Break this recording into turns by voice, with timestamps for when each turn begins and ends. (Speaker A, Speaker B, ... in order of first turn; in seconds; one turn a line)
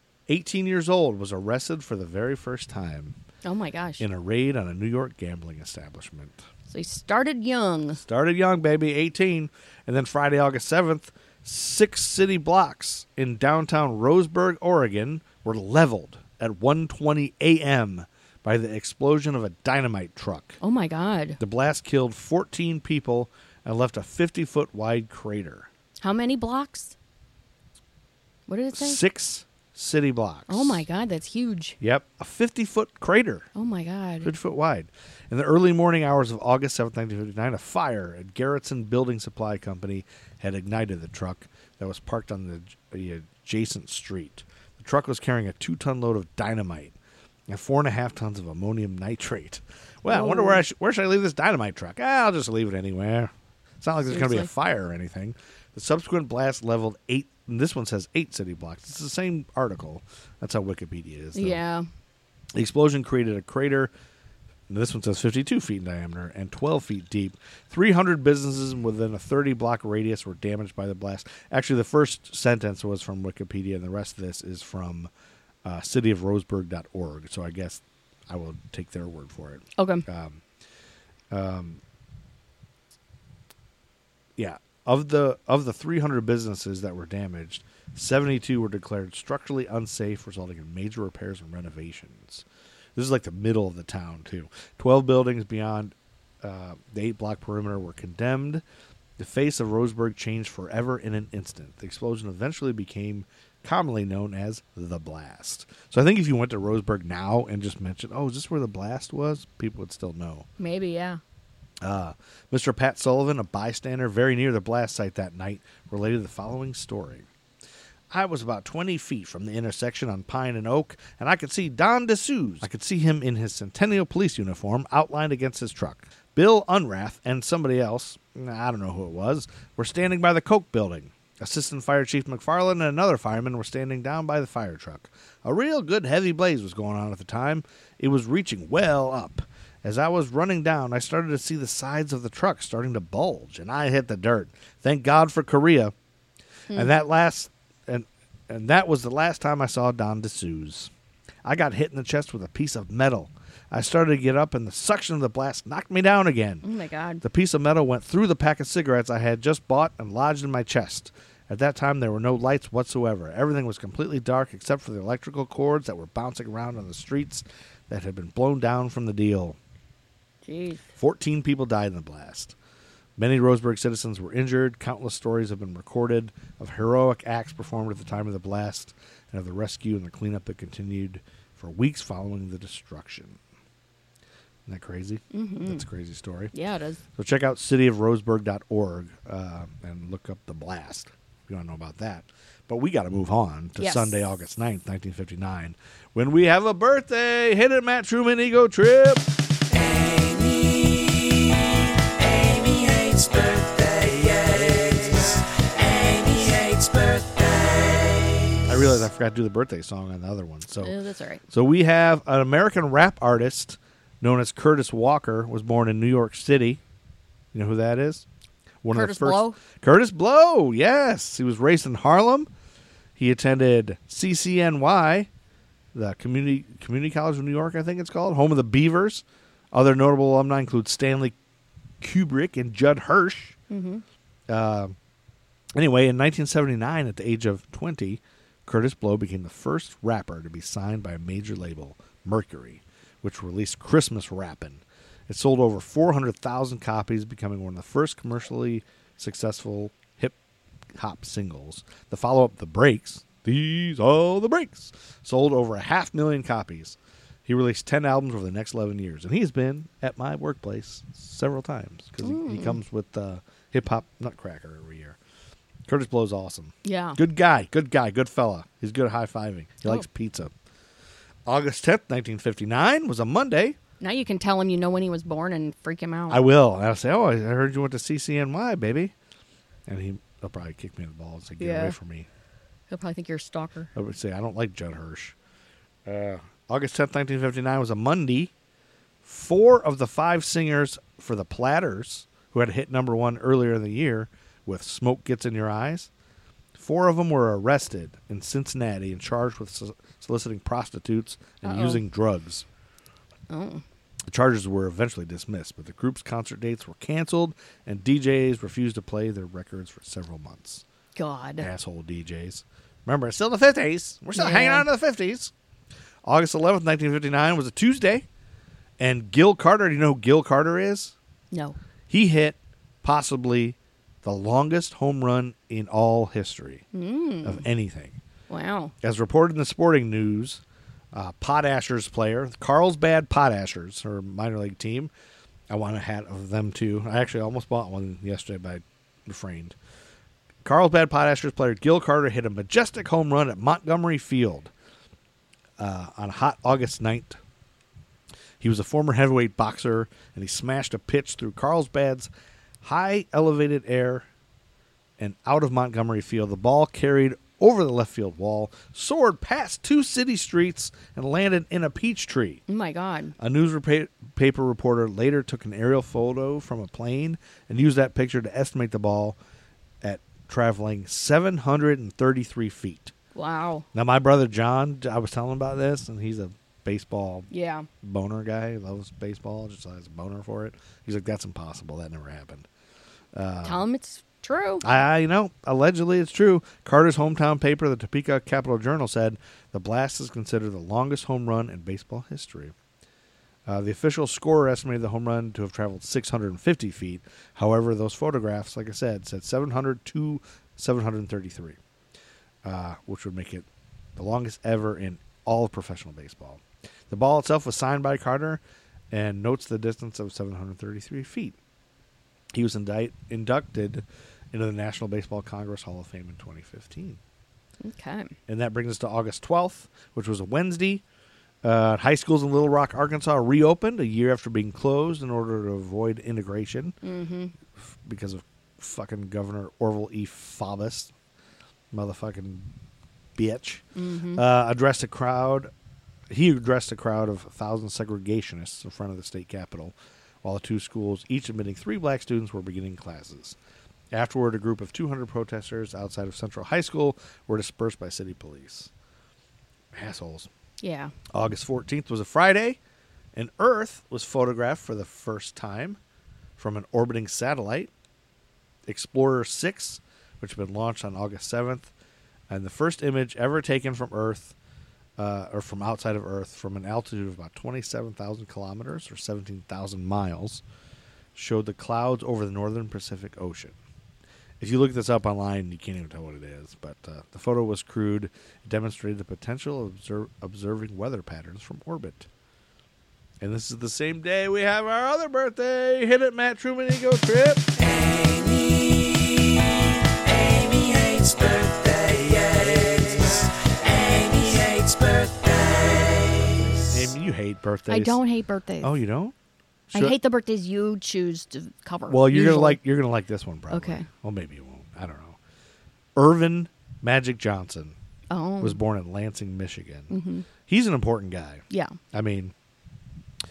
Speaker A: 0.3-3.2
Speaker B: 3.5-4.0
Speaker A: 4.0-6.4
Speaker B: 6.7-8.0
Speaker A: 8.0-20.6
Speaker B: 20.6-21.4
Speaker A: 21.4-25.7
Speaker B: 26.0-26.9
Speaker B: 28.5-29.0
Speaker A: 28.7-30.9
Speaker B: 30.5-31.8
Speaker A: 31.8-33.5
Speaker B: 33.6-34.3
Speaker A: 34.2-47.0
Speaker A: 47.5-61.6
Speaker B: 50.1-50.6
Speaker B: 54.1-54.5
Speaker B: 61.4-61.9
Speaker A: 62.5-63.9
Speaker A: 64.7-75.1
Speaker A: 75.6-80.4
Speaker B: 79.8-80.0
Speaker A: 81.3-81.8
Speaker A: 84.4-98.6
Speaker A: 99.2-110.5
Speaker B: 110.6-111.2
Speaker A: 111.8-117.3
Speaker A: 118.1-145.9
Speaker A: 146.7-150.9
Speaker A: 151.4-156.7
Speaker B: 156.6-157.2
Speaker A: 157.2-169.6
Speaker B: 170.4-170.8
Speaker A: 171.0-172.6
Speaker A: 173.2-183.4
Speaker A: 184.7-186.5
Speaker B: 185.3-185.8
Speaker B: 186.5-187.0
Speaker A: 187.2-199.3
Speaker B: 193.8-194.2
Speaker C: 203.7-204.6
Speaker C: 206.9-207.2
Speaker A: 208.7-210.9
Speaker B: 210.8-211.4
Speaker A: 211.5-216.8
Speaker A: 217.5-218.3
Speaker A: 218.8-222.5
Speaker B: 218.9-219.6
Speaker A: 223.2-225.3
Speaker A: 225.9-231.3
Speaker A: 232.0-233.6
Speaker B: 233.7-234.0
Speaker A: 234.5-235.0
Speaker A: 235.8-250.4
Speaker A: 250.9-265.2
Speaker B: 262.2-262.8
Speaker A: 265.9-270.5
Speaker B: 266.8-267.2
Speaker A: 271.5-273.8
Speaker B: 274.0-276.4
Speaker A: 276.3-279.1
Speaker A: 279.9-282.3
Speaker B: 281.6-282.0
Speaker B: 282.9-283.9
Speaker A: 283.9-285.4
Speaker A: 286.1-288.5
Speaker A: 289.2-296.1
Speaker A: 296.8-302.7
Speaker B: 301.6-302.0
Speaker B: 303.5-303.8
Speaker A: 304.3-310.8
Speaker B: 311.2-311.7
Speaker A: 311.6-315.5
Speaker B: 314.3-314.9
Speaker A: 316.2-318.3
Speaker A: 319.0-321.1
Speaker B: 321.5-321.8
Speaker A: 322.1-326.9
Speaker B: 326.9-327.6
Speaker A: 327.4-328.2
Speaker B: 328.5-328.9
Speaker A: 329.0-330.6
Speaker A: 331.1-335.1
Speaker A: 335.7-339.8
Speaker A: 340.6-344.7
Speaker A: 345.8-347.4
Speaker A: 348.6-352.3
Speaker A: 352.8-354.3
Speaker A: 355.2-362.6
Speaker B: 362.7-363.4
Speaker A: 363.4-369.4
Speaker A: 370.0-373.1
Speaker B: 373.4-373.9
Speaker A: 373.9-377.5
Speaker B: 377.5-377.9
Speaker A: 378.0-382.7
Speaker A: 383.3-383.9
Speaker B: 383.6-384.9
Speaker A: 384.8-392.7
Speaker A: 393.7-401.8
Speaker A: 402.6-411.6
Speaker A: 412.5-417.2
Speaker B: 417.8-418.3
Speaker A: 418.5-421.0
Speaker A: 421.6-427.0
Speaker B: 427.0-427.6
Speaker A: 428.0-431.1
Speaker A: 431.9-432.8
Speaker A: 433.4-435.7
Speaker B: 433.9-434.4
Speaker A: 436.3-443.6
Speaker A: 444.1-448.9
Speaker A: 449.9-450.5
Speaker B: 450.8-451.1
Speaker A: 451.3-452.8
Speaker A: 453.3-456.0
Speaker A: 456.6-457.9
Speaker A: 458.9-461.9
Speaker A: 462.5-464.6
Speaker A: 465.2-470.6
Speaker A: 471.4-473.8
Speaker A: 474.6-482.3
Speaker A: 483.4-487.8
Speaker C: 487.9-488.7
Speaker C: 490.3-496.2
Speaker A: 496.4-498.2
Speaker B: 497.9-499.0
Speaker A: 498.8-499.4
Speaker A: 499.9-500.2
Speaker B: 499.9-502.8
Speaker A: 502.1-505.4
Speaker B: 503.7-504.1
Speaker A: 506.2-508.0
Speaker B: 508.3-508.8
Speaker A: 508.6-510.1
Speaker B: 510.1-510.5
Speaker A: 510.7-512.5
Speaker B: 511.7-512.0